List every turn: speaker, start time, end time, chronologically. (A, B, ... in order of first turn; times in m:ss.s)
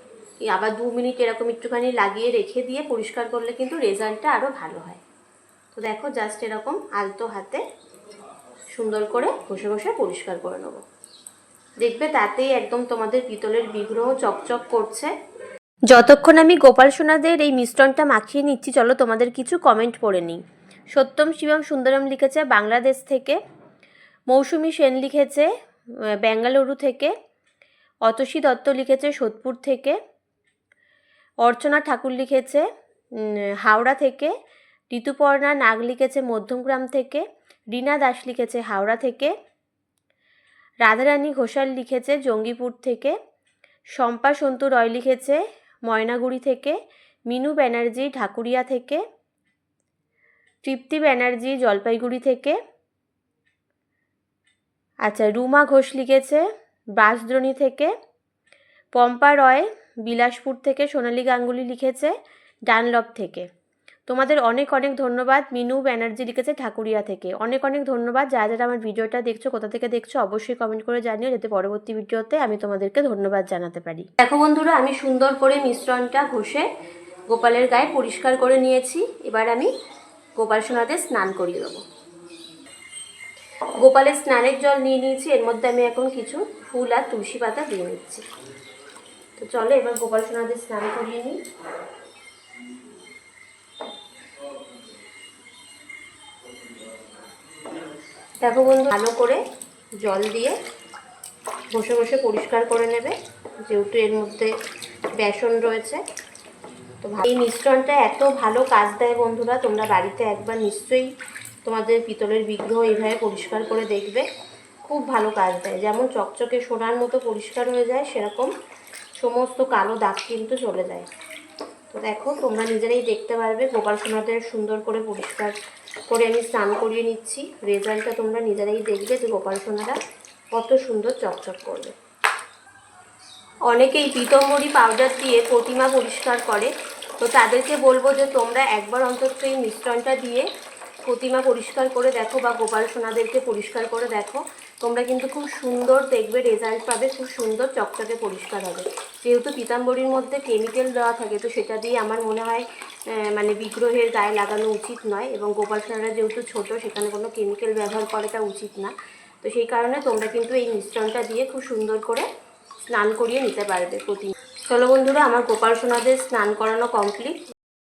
0:00.4-0:05.0 A
0:05.7-0:07.6 A
0:08.7-0:10.8 A
0:11.8-0:15.1 A
0:15.9-0:20.4 A
0:20.9-0:23.4 A
0:24.3-0:25.5 A
0:26.2-0:27.1 A
0:28.0-0:30.0 A
0:31.4-0:34.3 A
0:34.9-0:39.3 A
0:40.8-0:43.1 A
0:44.0-0:46.8 A
0:47.3-0:49.0 A
0:50.6-0:52.6 A
0:55.0-0:56.4 A
0:57.0-0:57.9 A
0:58.9-1:02.1 A
1:02.7-1:03.5 A
1:04.1-1:16.7 A
1:17.3-1:19.7 A
1:20.4-1:21.8 A
1:23.8-1:28.2 A
1:29.4-1:31.4 A
1:38.4-1:39.4 A
1:40.0-1:40.6 A
1:41.7-1:44.5 A
1:45.2-1:46.0 A
1:47.0-1:51.1 A
1:51.6-1:54.2 A
1:54.8-1:58.5 A
1:59.2-2:01.1 A
2:01.9-2:05.5 A
2:06.1-2:10.0 A
2:10.5-2:11.9 A
2:13.7-2:20.5 A
2:21.0-2:42.2 A
2:42.9-2:47.4 A